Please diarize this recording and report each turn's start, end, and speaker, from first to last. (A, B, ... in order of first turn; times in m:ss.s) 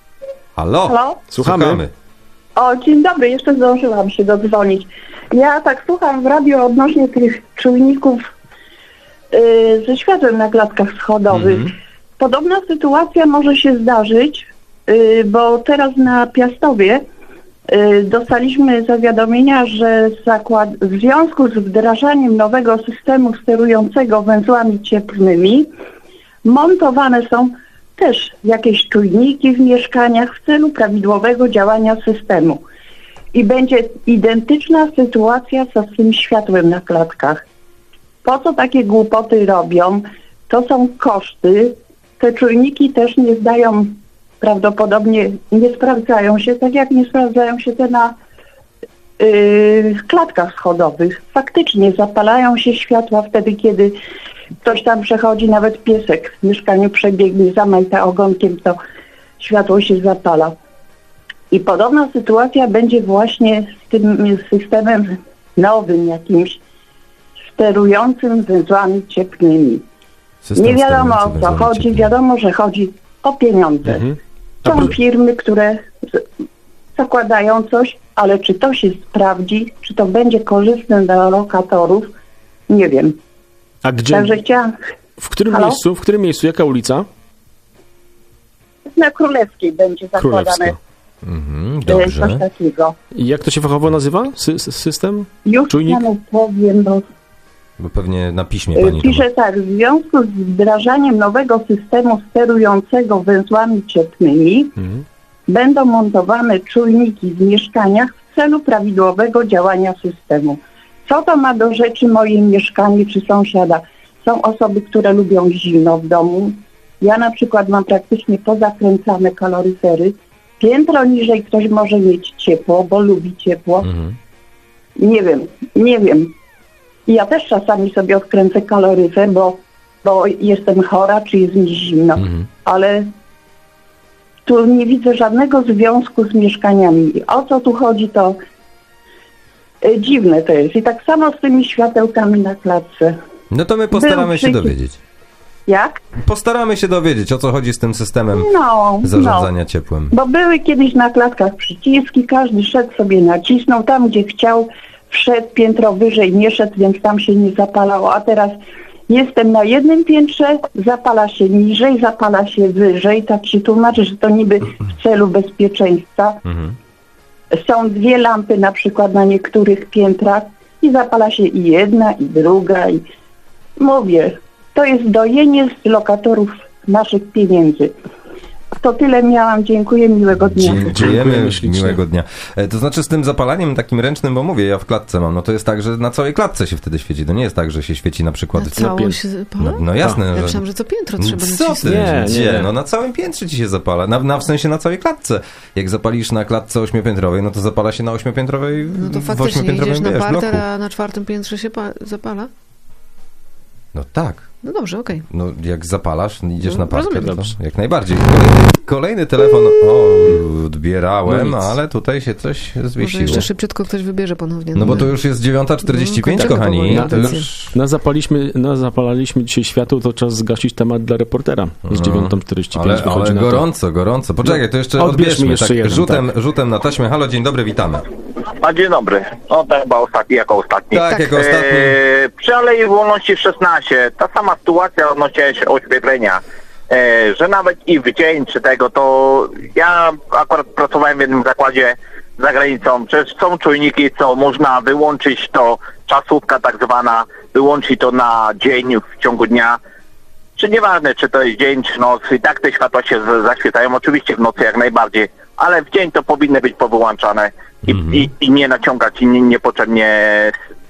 0:00.6-0:01.9 A
0:00.9-0:01.2 B
0:01.3-0:01.8 C
0:02.6-0:08.3 B
0:09.3-0:17.0 B
0:11.3-0:11.7 A
0:17.7-0:25.7 B
0:26.4-0:32.6 B
0:33.3-0:37.4 B
0:38.2-0:48.2 B
0:49.2-0:54.0 B
0:54.6-0:58.8 B
0:59.4-1:00.6 B
1:01.5-1:06.6 B
1:07.5-1:09.8 B
1:10.4-1:12.1 A
1:10.6-1:14.1 B
1:13.8-1:15.0 C
1:14.6-1:16.2 B
1:17.0-1:22.1 B
1:22.7-1:23.2 B
1:23.8-1:24.4 C
1:24.1-1:24.8 B
1:25.2-1:27.1 C
1:25.5-1:25.8 B
1:28.9-1:30.8 B
1:30.1-1:30.8 C
1:31.2-1:32.4 A
1:31.9-1:32.9 B
1:33.1-1:36.0 C
1:35.4-1:37.0 B
1:37.8-1:39.2 A
1:38.8-1:44.8 B
1:44.8-1:45.0 C
1:45.5-2:03.9 B
2:03.8-2:04.2 A
2:05.0-2:06.3 B
2:07.1-2:13.1 B
2:12.2-2:12.4 A
2:14.4-2:18.4 B
2:19.8-2:23.2 B
2:23.5-2:25.0 A
2:23.9-2:24.7 B
2:25.7-2:26.0 B
2:26.2-2:28.5 A
2:28.3-2:29.5 B
2:29.0-2:30.1 A
2:30.1-2:46.4 B
2:46.4-2:46.8 A
2:47.5-2:53.0 B
2:53.8-2:57.9 B
2:58.8-3:00.9 B
3:00.5-3:08.9 A
3:00.6-3:02.0 C
3:08.6-3:12.6 D
3:08.8-3:09.2 C
3:09.6-3:10.6 A
3:11.2-3:20.6 A
3:11.8-3:12.7 C
3:18.9-3:22.5 D
3:23.9-3:24.5 A
3:24.6-3:25.3 D
3:25.3-3:33.5 A
3:26.6-3:27.4 D
3:27.2-3:27.5 C
3:31.3-3:31.8 C
3:33.0-3:35.2 D
3:34.7-3:37.8 A
3:35.8-3:37.5 D
3:36.4-3:43.7 C
3:41.9-3:48.1 A
3:44.4-3:46.3 C
3:48.6-4:09.8 E
3:50.9-3:52.0 A
3:51.0-3:51.4 D
4:10.6-4:20.5 E
4:17.8-4:18.3 A